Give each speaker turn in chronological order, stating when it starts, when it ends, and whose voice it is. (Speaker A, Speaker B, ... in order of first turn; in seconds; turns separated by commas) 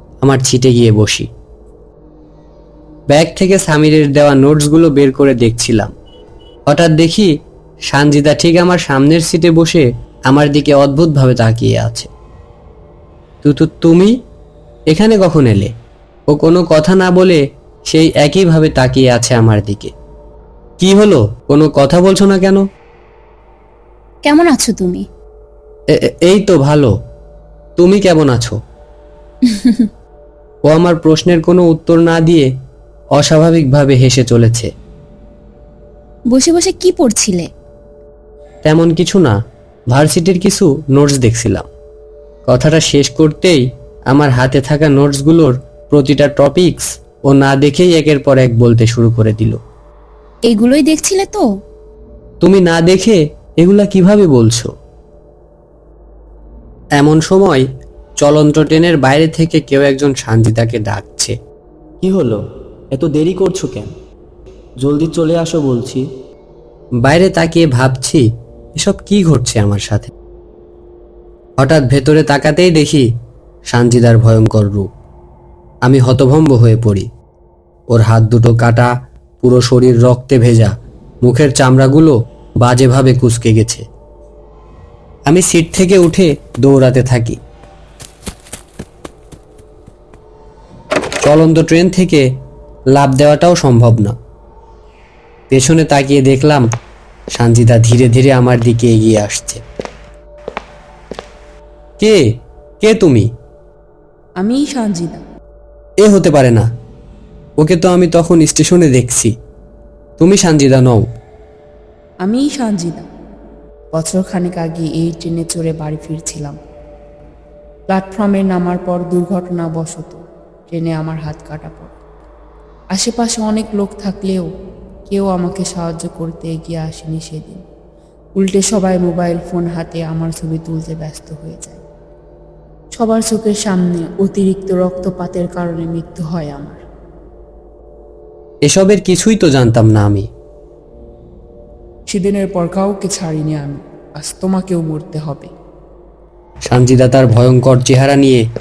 Speaker A: 0.2-1.3, Speaker A: 3.1-5.9, Speaker A: 6.7-7.3, Speaker A: 7.9-12.1, Speaker A: 13.4-14.1, Speaker A: 14.9-15.7, Speaker A: 16.3-19.9, Speaker A: 20.8-22.6, Speaker B: 24.2-25.0, Speaker A: 26.0-26.9, Speaker A: 27.8-28.6, Speaker B: 29.5-29.9, Speaker A: 30.6-32.5, Speaker A: 33.2-34.7, Speaker B: 36.3-37.5, Speaker A: 38.6-39.3, Speaker A: 39.9-41.7, Speaker A: 42.5-49.6, Speaker B: 50.5-51.4, Speaker A: 52.4-54.7, Speaker A: 57.0-57.6, Speaker A: 58.2-61.3, Speaker C: 62.0-62.4, Speaker C: 62.9-63.9, Speaker C: 64.8-66.0, Speaker A: 67.0-68.2, Speaker A: 68.8-70.1, Speaker A: 71.6-73.0, Speaker A: 73.7-74.9, Speaker A: 75.8-77.1, Speaker A: 77.9-78.9, Speaker A: 79.4-83.8, Speaker A: 85.3-87.4, Speaker A: 91.2-92.2, Speaker A: 92.9-94.1, Speaker A: 95.5-96.6, Speaker A: 97.3-99.6, Speaker A: 102.8-103.3, Speaker D: 104.4-105.2, Speaker A: 106.0-106.7, Speaker A: 107.6-109.3, Speaker A: 110.2-111.1, Speaker D: 112.2-113.1, Speaker D: 113.9-116.6, Speaker D: 117.9-121.9, Speaker D: 122.9-124.5, Speaker D: 125.1-127.6, Speaker D: 128.3-131.8, Speaker D: 132.9-136.8, Speaker A: 138.7-140.3, Speaker D: 142.1-145.5, Speaker A: 146.7-148.4